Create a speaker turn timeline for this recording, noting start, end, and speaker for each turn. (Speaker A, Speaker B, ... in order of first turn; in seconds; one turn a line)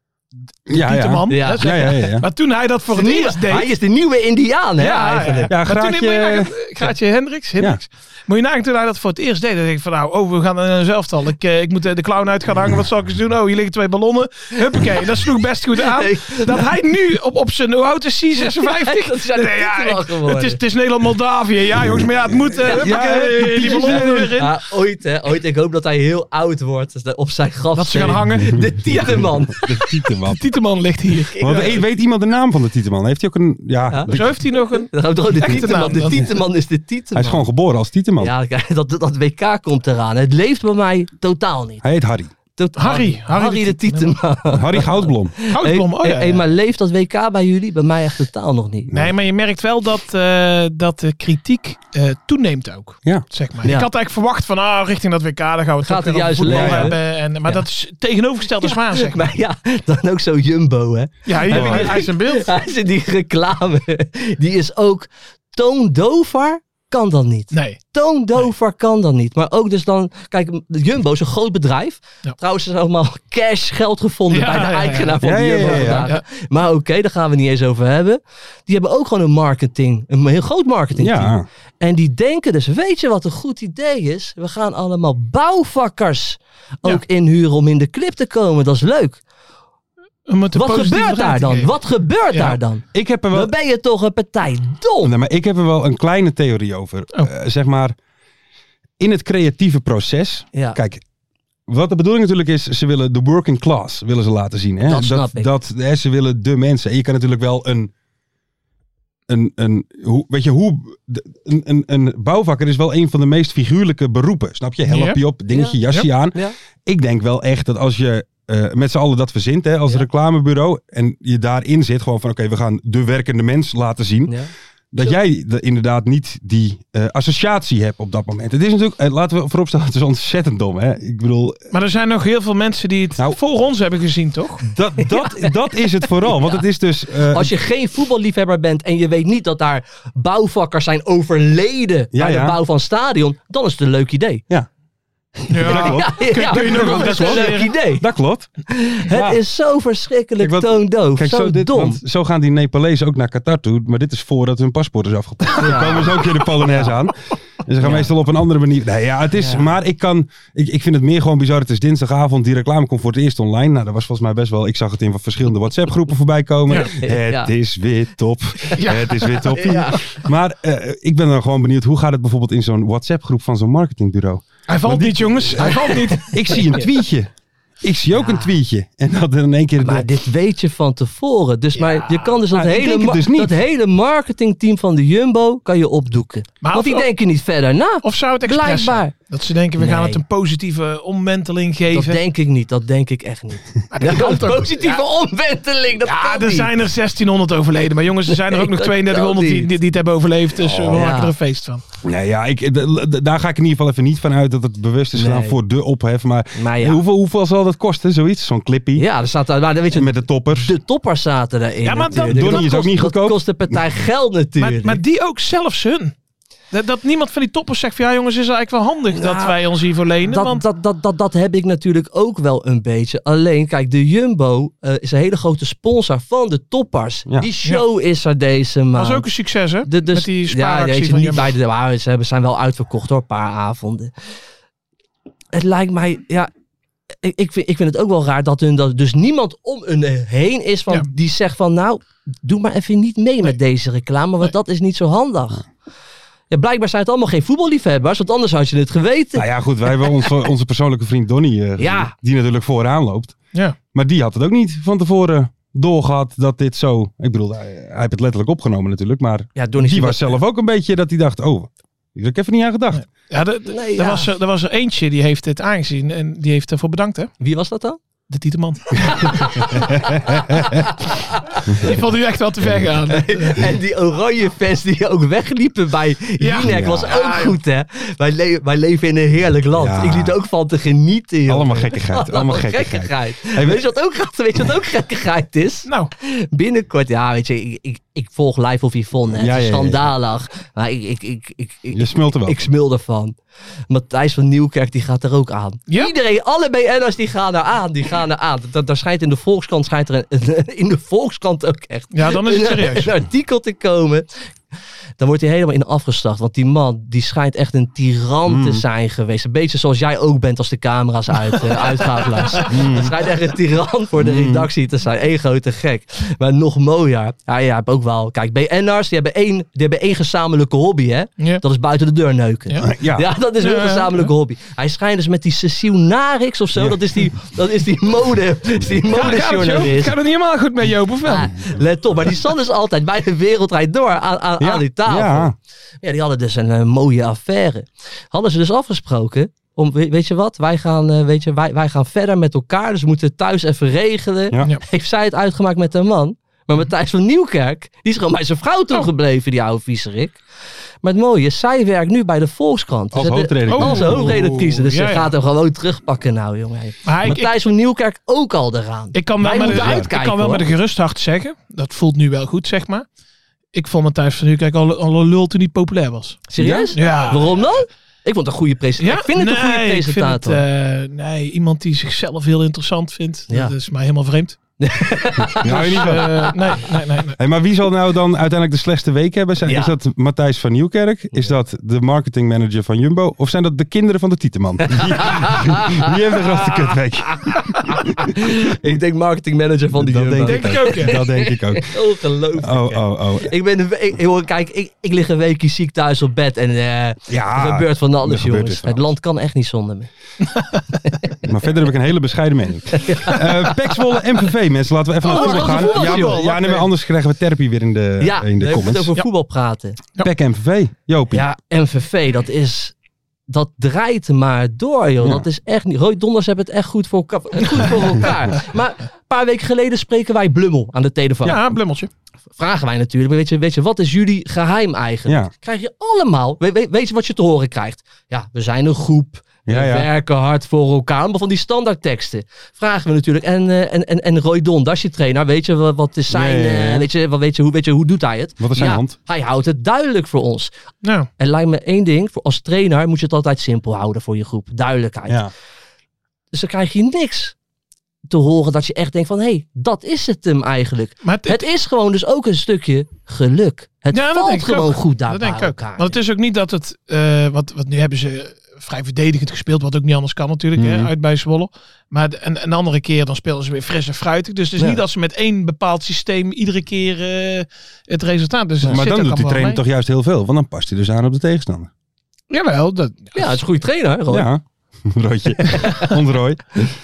Speaker A: 0.7-3.7
Speaker B: 0.7-2.3
Speaker C: 1.3-2.1
Speaker C: 2.9-5.5
Speaker A: 4.8-24.5
Speaker B: 5.5-6.5
Speaker C: 15.8-16.6
Speaker C: 18.4-20.6
Speaker B: 21.8-24.2
Speaker C: 22.7-22.9
Speaker C: 23.6-29.8
Speaker A: 27.7-28.7
Speaker B: 29.0-30.4
Speaker A: 30.3-31.8
Speaker C: 31.2-31.7
Speaker B: 31.4-34.4
Speaker C: 33.9-37.4
Speaker A: 34.1-36.2
Speaker B: 37.1-38.3
Speaker C: 38.2-41.8
Speaker B: 41.8-42.3
Speaker C: 42.6-48.9
Speaker A: 42.8-44.2
Speaker B: 44.5-45.3
Speaker A: 45.5-46.4
Speaker A: 48.9-59.3
Speaker C: 55.8-57.6
Speaker B: 56.4-56.9
Speaker C: 58.6-89.2
Speaker A: 61.2-62.5
Speaker B: 61.5-62.1
Speaker A: 67.5-67.8
Speaker A: 74.3-76.2
Speaker B: 75.2-76.1
Speaker B: 81.0-81.5
Speaker A: 90.3-91.7
Speaker C: 90.5-95.1
Speaker A: 92.3-92.6
Speaker B: 92.9-93.5
Speaker B: 95.0-98.0
Speaker B: 99.0-101.0
Speaker C: 100.5-100.8
Speaker B: 101.7-107.9
Speaker C: 104.9-105.5
Speaker B: 109.3-124.3
Speaker A: 114.9-115.2
Speaker C: 115.5-115.8
Speaker B: 124.9-131.6
Speaker A: 131.7-134.6
Speaker B: 134.6-137.5
Speaker C: 135.0-135.5
Speaker C: 136.2-136.6
Speaker C: 137.3-144.4
Speaker B: 142.1-142.6
Speaker B: 145.4-148.5
Speaker A: 145.5-147.7
Speaker C: 145.6-148.0
Speaker C: 148.7-152.0
Speaker B: 149.0-149.4
Speaker B: 150.4-177.3
Speaker C: 155.6-156.9
Speaker C: 157.8-158.1
Speaker C: 159.4-159.7
Speaker C: 166.7-167.5
Speaker A: 168.8-169.5
Speaker C: 169.5-170.1
Speaker A: 174.7-176.4
Speaker C: 175.6-176.9
Speaker B: 177.8-180.1
Speaker C: 178.1-178.5
Speaker C: 179.8-189.1
Speaker A: 181.8-182.5
Speaker B: 182.5-183.6
Speaker A: 186.6-187.1
Speaker A: 188.0-192.2
Speaker C: 189.8-190.2
Speaker C: 191.9-196.7
Speaker A: 193.9-195.0
Speaker A: 196.0-201.8
Speaker C: 198.3-199.7
Speaker C: 200.9-201.3
Speaker B: 202.0-209.1
Speaker C: 205.1-205.6
Speaker C: 206.6-207.0
Speaker C: 208.9-215.0
Speaker B: 209.9-210.7
Speaker A: 211.8-212.7
Speaker B: 212.1-213.8
Speaker A: 214.6-216.1
Speaker A: 216.7-220.6
Speaker C: 219.1-219.6
Speaker C: 220.3-229.3
Speaker A: 228.9-231.5
Speaker C: 229.8-234.1
Speaker C: 235.5-236.5
Speaker C: 237.2-245.6
Speaker C: 246.5-249.4
Speaker B: 249.3-253.3
Speaker C: 251.8-252.1
Speaker B: 253.9-263.0
Speaker C: 259.6-260.4
Speaker A: 262.9-267.3
Speaker C: 263.7-264.3
Speaker C: 267.4-268.0
Speaker A: 268.3-269.8
Speaker C: 269.0-271.6
Speaker B: 269.8-270.6
Speaker A: 271.7-273.6
Speaker C: 273.1-293.3
Speaker A: 276.4-277.6
Speaker B: 276.6-277.1
Speaker B: 279.7-280.4
Speaker B: 281.5-283.8
Speaker A: 285.8-286.1
Speaker B: 289.3-290.1
Speaker B: 291.9-292.6
Speaker C: 293.9-304.2
Speaker A: 302.1-303.1
Speaker C: 305.2-330.1
Speaker B: 308.5-308.8
Speaker A: 312.5-312.8
Speaker B: 312.7-313.1
Speaker B: 314.2-314.7
Speaker B: 322.8-323.3
Speaker A: 323.6-324.3
Speaker B: 326.8-327.3
Speaker A: 329.1-331.5
Speaker C: 331.3-350.4
Speaker B: 334.6-335.5
Speaker C: 351.0-360.7
Speaker B: 353.1-354.6
Speaker A: 353.7-355.3
Speaker A: 357.1-357.5
Speaker A: 359.1-363.1
Speaker B: 359.4-360.1
Speaker A: 363.7-367.6
Speaker C: 366.5-370.6
Speaker B: 366.6-366.9
Speaker A: 369.0-374.6
Speaker C: 374.8-376.7
Speaker B: 375.6-376.4
Speaker A: 375.6-377.4
Speaker B: 377.4-388.4
Speaker C: 379.6-379.9
Speaker C: 384.9-386.1
Speaker C: 387.3-400.1
Speaker B: 389.9-392.0
Speaker A: 390.4-391.1
Speaker B: 392.6-393.5
Speaker B: 397.3-399.1
Speaker C: 401.0-401.5
Speaker B: 401.4-409.1
Speaker C: 402.9-403.4
Speaker A: 405.2-406.9
Speaker C: 405.3-406.5
Speaker C: 408.2-410.0
Speaker B: 410.2-411.5
Speaker C: 411.3-412.9
Speaker C: 413.5-421.6
Speaker A: 421.4-422.1
Speaker C: 422.6-440.7
Speaker B: 429.6-430.1
Speaker B: 436.3-437.1
Speaker B: 438.6-439.2
Speaker A: 441.0-441.3
Speaker C: 441.4-445.4
Speaker C: 446.5-447.5
Speaker C: 448.3-456.2
Speaker A: 451.2-451.7
Speaker A: 454.1-469.8
Speaker B: 460.8-461.1
Speaker B: 468.8-471.9
Speaker A: 472.5-473.6
Speaker C: 473.3-474.5
Speaker B: 474.3-476.9
Speaker C: 475.7-476.1